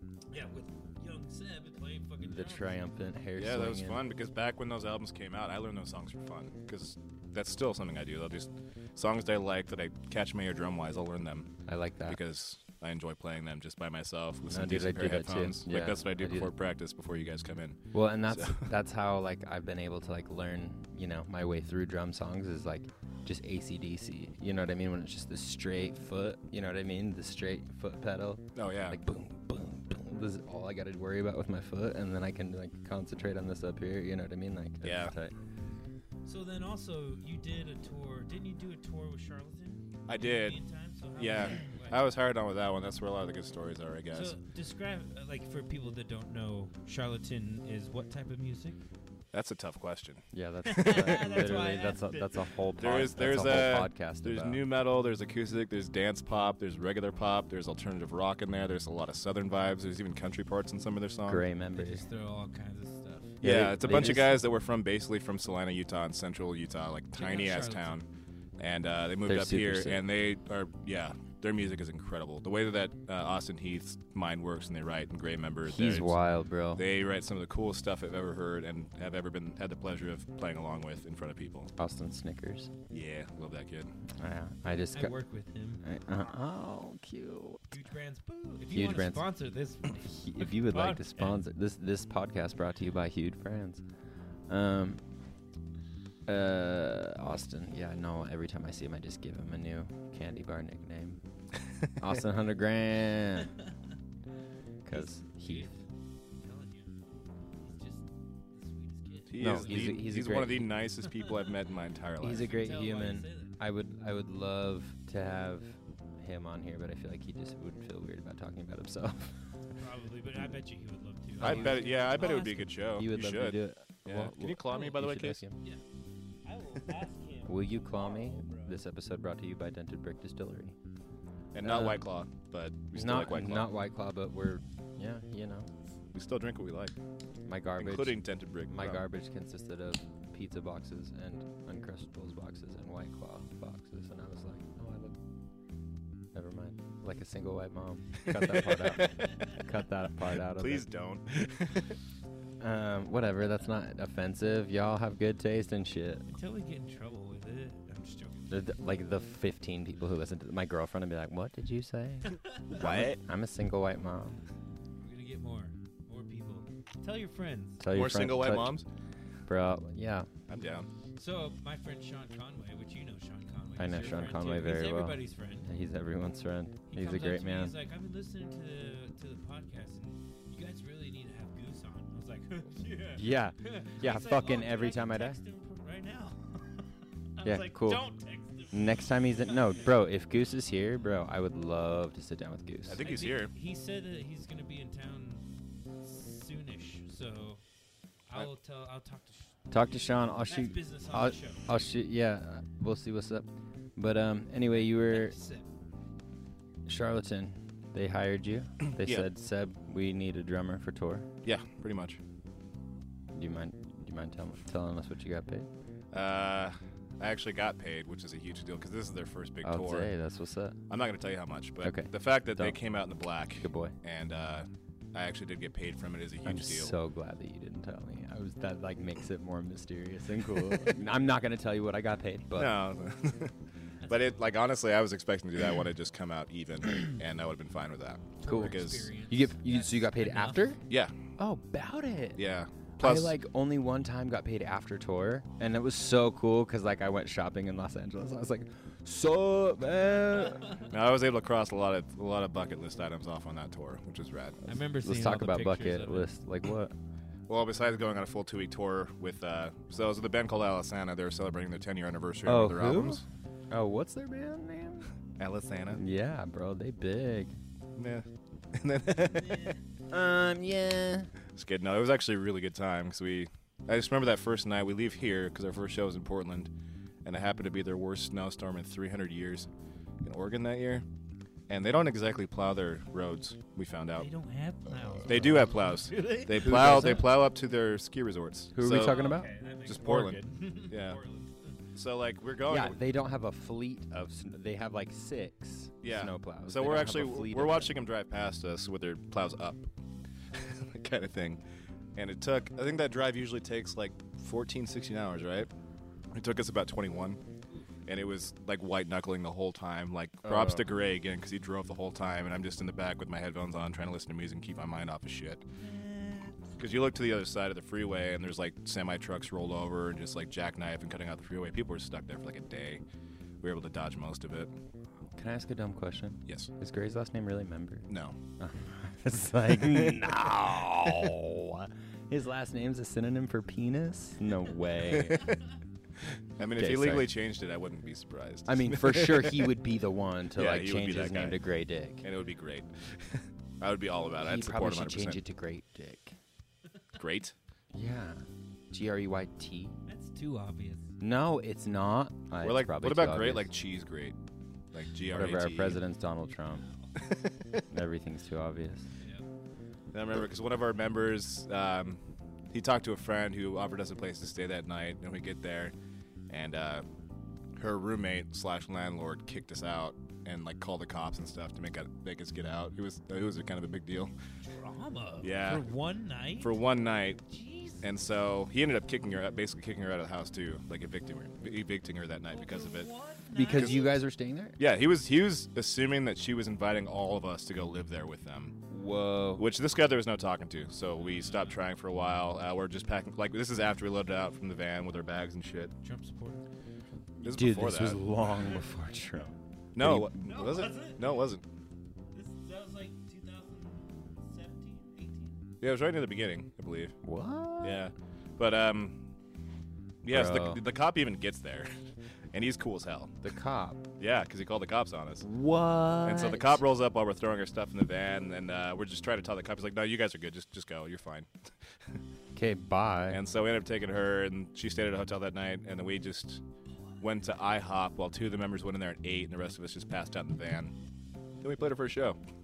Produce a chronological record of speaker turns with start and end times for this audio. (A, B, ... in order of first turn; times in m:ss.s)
0:00.3-0:02.8 A
0:02.2-0:04.0 B
0:03.4-0:11.5 C
0:11.7-0:12.2 B
0:12.0-0:18.7 C
0:14.5-0:16.5 B
0:17.9-0:35.4 B
0:28.5-0:29.0 C
0:34.8-0:35.1 C
0:36.2-0:42.0 A
0:40.1-0:40.6 C
0:41.2-0:44.4 C
0:44.1-0:48.8 A
0:49.3-0:51.2 C
0:50.3-0:54.6 B
0:50.7-0:52.3 A
0:52.8-1:01.4 C
1:01.2-1:02.0 B
1:01.7-1:03.4 A
1:03.4-1:04.4 B
1:03.4-1:08.0 C
1:07.1-1:08.0 A
1:08.6-1:16.1 C
1:09.2-1:10.0 B
1:15.6-1:16.8 B
1:16.7-1:21.7 C
1:21.8-1:22.7 B
1:22.9-1:23.9 C
1:24.2-1:25.2 B
1:24.7-1:25.8 A
1:25.8-1:27.7 B
1:27.7-1:31.4 A
1:28.7-1:29.3 B
1:29.9-1:33.8 B
1:34.5-1:35.0 B
1:36.3-1:41.2 B
1:42.0-1:43.5 B
1:44.8-1:45.8 B
1:44.9-1:45.8 A
1:46.4-1:46.9 A
1:47.6-1:50.0 A
1:49.3-1:52.5 C
1:49.4-1:50.7 B
1:52.2-1:59.5 B
1:52.3-1:53.6 A
1:59.7-2:02.7 A
2:01.4-2:02.2 B
2:01.4-2:05.4 C
2:03.0-2:05.6 B
2:06.4-2:08.8 A
2:07.4-2:10.8 B
2:11.5-2:13.7 C
2:11.6-2:12.0 B
2:12.9-2:15.7 B
2:16.1-2:17.0 C
2:17.4-2:25.1 B
2:17.8-2:19.0 C
2:26.3-2:30.9 B
2:30.6-2:32.0 C
2:32.6-2:36.2 B
2:36.3-2:38.6 A
2:38.5-2:44.4 B
2:42.3-2:42.6 A
2:42.7-2:43.2 C
2:45.0-2:47.8 A
2:47.8-2:48.8 B
2:47.9-2:48.8 C
2:49.5-2:50.3 B
2:50.5-2:50.9 C
2:51.2-2:55.7 A
2:53.8-2:57.7 B
2:56.9-3:09.8 A
3:03.1-3:05.4 B
3:07.4-3:08.1 B
3:08.7-3:13.0 B
3:12.9-3:13.5 C
3:13.0-3:15.4 A
3:16.0-3:17.6 A
3:18.3-3:19.6 A
3:19.7-3:25.4 B
3:20.4-3:21.7 A
3:24.7-3:25.7 A
3:26.8-3:31.3 B
3:29.0-3:29.3 C
3:31.4-3:32.2 C
3:33.3-3:35.7 B
3:36.1-3:40.1 C
3:39.6-3:40.8 B
3:40.9-3:46.9 C
3:41.8-3:42.8 B
3:43.6-3:44.0 B
3:46.4-3:52.7 B
3:52.5-3:53.5 C
3:54.0-3:54.5 A
3:54.1-3:59.1 C
3:58.4-4:00.7 A
3:58.4-4:00.8 B
4:00.9-4:01.2 C
4:01.4-4:02.4 B
4:02.4-4:03.3 C
4:03.0-4:10.7 B
4:10.9-4:14.8 C
4:14.7-4:16.3 A
4:15.0-4:16.9 B
4:17.5-4:23.2 C
4:22.4-4:25.1 B
4:25.4-4:26.0 C
4:25.9-4:27.6 B
4:28.0-4:29.7 C
4:29.3-4:29.8 A
4:30.1-4:31.3 B
4:31.6-4:36.7 C
4:37.2-4:39.7 C
4:40.2-4:41.0 C
4:41.7-4:44.3 C
4:44.2-4:47.2 A
4:45.2-4:49.2 C
4:45.3-4:45.6 B
4:46.5-4:47.3 B
4:48.7-4:49.5 B
4:49.0-4:51.8 A
4:49.8-4:51.2 C
4:51.9-4:53.0 C
4:52.6-4:57.9 B
4:56.0-4:59.9 C
5:00.5-5:01.6 C
5:02.1-5:05.7 C
5:06.3-5:07.4 C
5:08.0-5:15.6 C
5:10.4-5:10.9 B
5:15.8-5:16.6 A
5:16.8-5:23.0 C
5:23.6-5:24.7 C
5:25.3-5:28.1 B
5:28.1-5:28.4 C
5:28.6-5:35.5 B
5:35.1-5:35.6 C
5:36.3-5:39.7 C
5:36.7-5:37.3 B
5:38.7-5:42.2 B
5:40.5-5:41.6 C
5:42.2-5:45.4 C
5:44.4-5:46.4 B
5:47.1-5:47.5 C
5:47.9-5:49.9 B
5:50.1-5:51.1 A
5:51.2-5:53.7 B
5:52.6-5:54.4 C
5:54.9-5:56.0 C
5:55.3-5:56.8 B
5:56.7-5:57.1 A
5:57.2-5:57.8 C
5:57.9-5:59.1 B
6:00.1-6:02.2 C
6:02.7-6:05.9 C
6:06.5-6:07.0 C
6:07.8-6:14.3 C
6:14.6-6:16.8 A
6:15.4-6:15.8 C
6:16.6-6:17.4 C
6:17.5-6:18.0 A
6:18.0-6:23.1 C
6:22.5-6:24.1 A
6:23.5-6:24.8 B
6:24.8-6:28.8 C
6:28.9-6:29.6 B
6:29.6-6:35.9 C
6:31.2-6:31.8 A
6:36.0-6:36.6 A
6:37.4-6:40.3 B
6:37.4-6:38.2 C
6:38.6-6:38.9 A
6:39.9-6:41.6 C
6:40.4-6:41.4 A
6:42.3-6:45.6 A
6:45.8-6:47.2 C
6:47.2-6:48.1 B
6:47.8-6:49.2 C
6:50.2-6:52.0 C
6:50.3-6:50.8 B
6:52.5-6:53.4 C
6:53.4-6:54.0 B
6:54.2-6:55.5 C
6:55.4-6:56.8 B
6:56.2-7:01.5 C
7:02.5-7:03.4 B
7:03.3-7:06.6 C
7:07.2-7:10.9 C
7:11.6-7:12.4 C